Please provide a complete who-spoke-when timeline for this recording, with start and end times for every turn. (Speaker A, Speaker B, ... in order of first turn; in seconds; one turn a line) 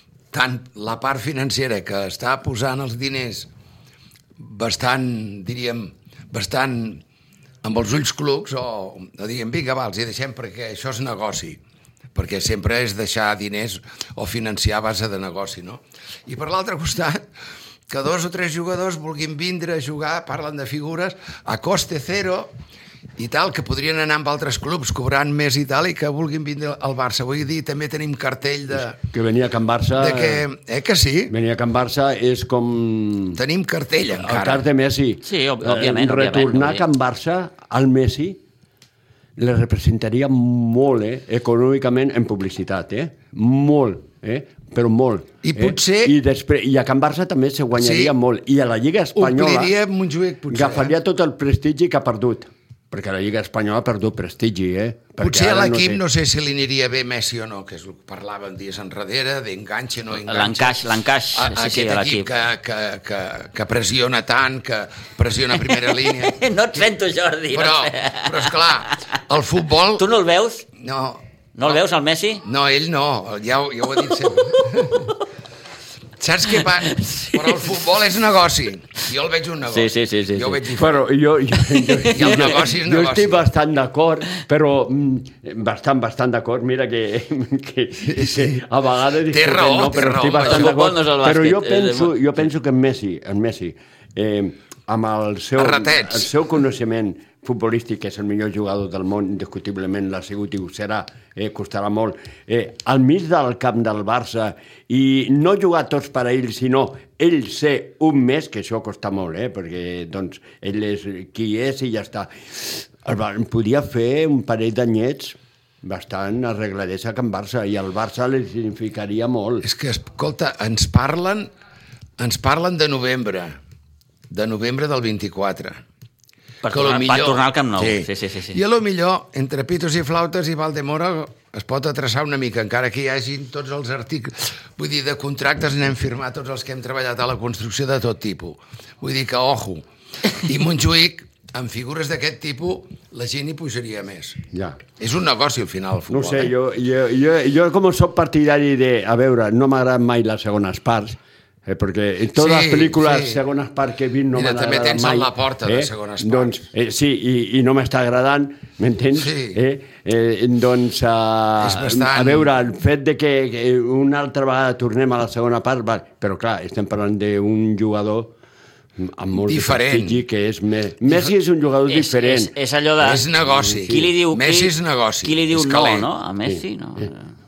Speaker A: 0.3-3.5
Speaker A: 4.4-7.0
Speaker A: 7.6-11.6
Speaker A: 12.1-17.2
Speaker A: 17.9-22.5
Speaker A: 23.2-29.0
Speaker B: 29.0-30.4
Speaker A: 29.9-31.3
Speaker B: 31.3-33.4
Speaker A: 33.3-34.6
Speaker B: 34.1-38.4
Speaker C: 35.2-36.9
Speaker B: 39.4-49.7
Speaker A: 45.4-46.1
Speaker A: 47.8-48.1
Speaker A: 49.1-51.0
Speaker B: 50.5-56.0
Speaker A: 55.2-66.8
Speaker C: 60.1-62.3
Speaker C: 65.5-69.2
Speaker A: 67.5-70.1
Speaker C: 70.0-70.7
Speaker A: 70.8-71.8
Speaker C: 71.5-72.4
Speaker A: 72.4-75.1
Speaker C: 74.3-75.1
Speaker A: 76.2-81.0
Speaker C: 76.5-77.7
Speaker C: 79.7-80.6
Speaker B: 80.7-119.7
Speaker C: 81.9-82.5
Speaker A: 82.1-83.5
Speaker A: 88.0-88.6
Speaker A: 89.3-90.8
Speaker C: 90.4-92.4
Speaker A: 95.6-96.3
Speaker A: 119.6-121.5
Speaker A: 122.2-123.6
Speaker A: 124.3-125.8
Speaker C: 126.6-128.6
Speaker A: 126.7-144.4
Speaker B: 144.5-144.8
Speaker A: 145.0-146.5
Speaker B: 146.1-168.3
Speaker A: 152.3-153.4
Speaker A: 154.3-156.6
Speaker A: 159.1-159.6
Speaker A: 161.6-162.5
Speaker B: 169.0-172.5
Speaker A: 169.3-170.2
Speaker C: 171.9-173.3
Speaker A: 173.0-176.1
Speaker B: 173.5-174.1
Speaker C: 173.8-177.3
Speaker B: 176.4-177.1